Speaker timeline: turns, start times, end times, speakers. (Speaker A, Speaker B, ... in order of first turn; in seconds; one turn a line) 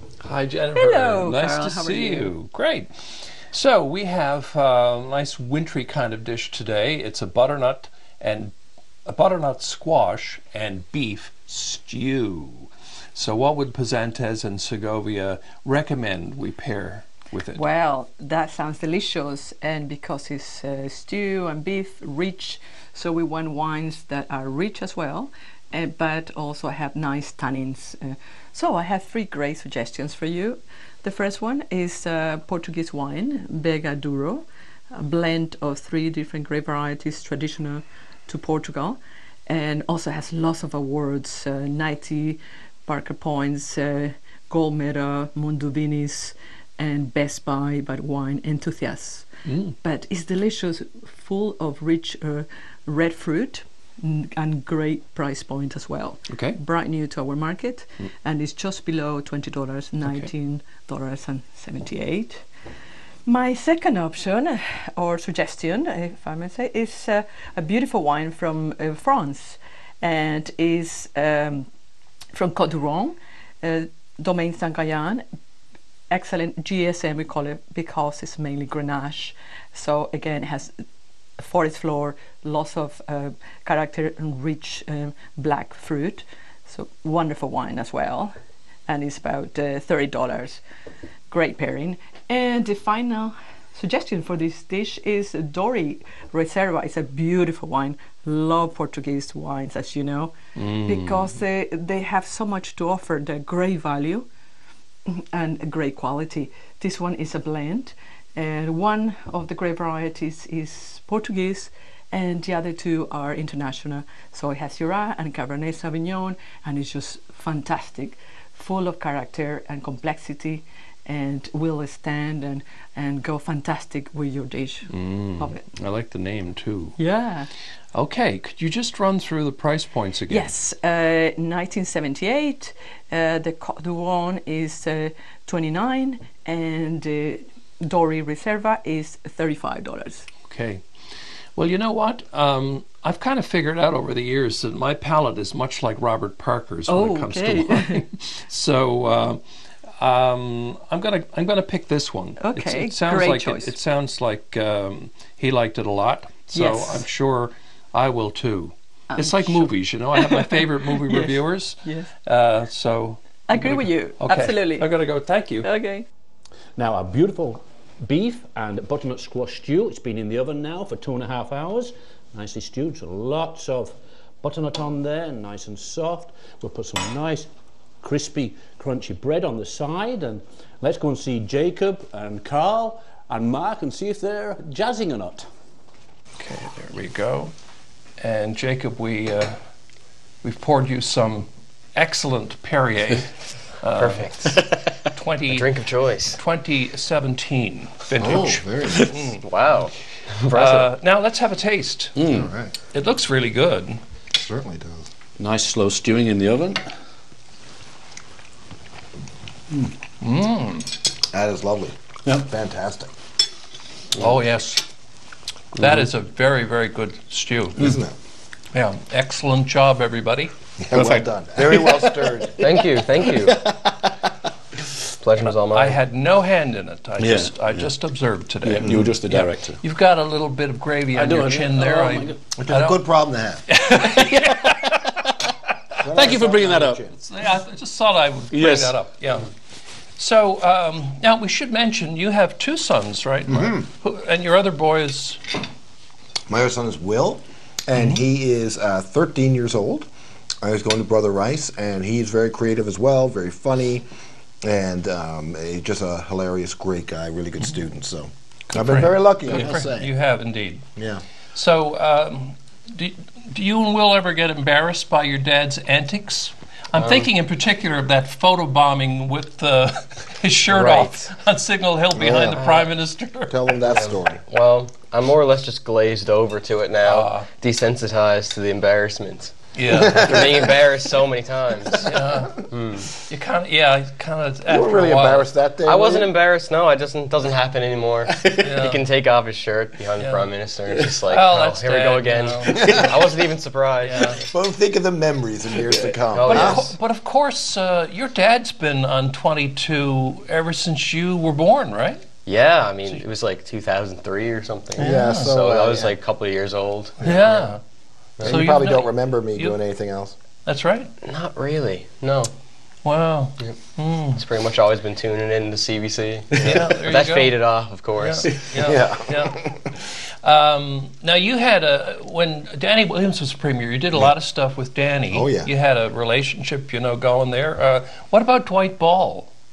Speaker A: 0.2-17.6
Speaker B: 0.7-2.3
Speaker B: 17.5-62.5
Speaker A: 49.4-49.8
Speaker A: 56.3-56.6
Speaker A: 60.0-60.3
Speaker B: 63.2-71.7
Speaker B: 72.3-75.2
Speaker B: 76.1-80.8
Speaker B: 81.4-88.3
Speaker B: 88.9-90.6
Speaker B: 91.3-104.3
Speaker A: 100.5-101.3
Speaker B: 105.1-125.6
Speaker A: 124.9-127.0
Speaker B: 127.0-127.5
Speaker A: 127.9-130.5
Speaker B: 130.3-140.3
Speaker A: 140.5-140.8
Speaker A: 141.6-149.4
Speaker B: 146.9-148.0
Speaker A: 150.0-165.7
Speaker B: 152.4-153.7
Speaker B: 156.5-157.1
Speaker B: 159.1-162.1
Speaker B: 163.5-164.9
Speaker B: 165.6-166.1
Speaker C: 166.8-177.5
Speaker C: 178.0-185.5
Speaker A: 186.4-187.5
Speaker A: 188.2-189.6
Speaker A: 190.4-195.7
Speaker D: 193.9-196.4
Speaker A: 196.3-199.4
Speaker E: 198.2-199.2
Speaker D: 199.4-200.9
Speaker A: 200.5-202.2
Speaker C: 202.1-202.5
Speaker E: 202.3-202.7
Speaker A: 202.9-204.0
Speaker E: 204.3-205.1
Speaker C: 205.4-206.8
Speaker A: 210.2-210.9
Speaker E: 211.3-213.1
Speaker A: 214.2-214.8
Speaker A: 215.8-217.9
Speaker E: 217.8-218.1
Speaker A: 218.7-220.5
Speaker E: 220.8-222.8
Speaker C: 220.9-223.8
Speaker D: 222.6-223.6
Speaker D: 225.2-226.0
Speaker A: 225.7-233.0
Speaker C: 227.2-227.9
Speaker C: 228.6-229.8
Speaker C: 231.1-232.6
Speaker E: 232.6-233.6
Speaker A: 233.7-235.2
Speaker C: 233.8-235.3
Speaker A: 235.9-236.3
Speaker E: 236.0-237.1
Speaker C: 236.0-237.0
Speaker A: 237.1-239.5
Speaker C: 238.5-239.0
Speaker A: 240.2-245.4
Speaker E: 243.5-243.8
Speaker E: 246.5-250.1
Speaker E: 250.6-254.1
Speaker E: 254.6-260.1
Speaker A: 258.7-260.8
Speaker E: 260.9-261.2
Speaker A: 261.5-273.7
Speaker D: 267.0-267.2
Speaker D: 270.7-271.3
Speaker E: 272.1-272.8
Speaker D: 272.5-272.8
Speaker E: 273.5-274.4
Speaker D: 273.9-283.1
Speaker A: 277.0-277.5
Speaker A: 279.7-280.5
Speaker E: 280.1-280.4
Speaker A: 282.0-282.6
Speaker A: 283.2-285.5
Speaker E: 284.7-286.3
Speaker D: 285.8-294.5
Speaker A: 288.6-289.0
Speaker A: 290.2-290.5
Speaker A: 291.3-293.1
Speaker E: 292.7-293.1
Speaker A: 294.0-294.4
Speaker E: 294.4-296.9
Speaker C: 295.9-296.1
Speaker D: 296.3-296.9
Speaker A: 296.4-302.2
Speaker D: 302.4-307.6
Speaker E: 305.0-306.1
Speaker A: 305.0-305.5
Speaker A: 307.2-307.8
Speaker E: 307.2-307.5
Speaker D: 308.4-308.6
Speaker E: 308.4-310.3
Speaker A: 308.4-309.8
Speaker A: 310.6-311.1
Speaker D: 311.2-312.5
Speaker A: 313.0-314.4
Speaker D: 313.6-318.8
Speaker A: 316.6-317.6
Speaker A: 318.2-319.6
Speaker E: 318.8-319.8
Speaker A: 320.4-329.5
Speaker E: 325.3-325.7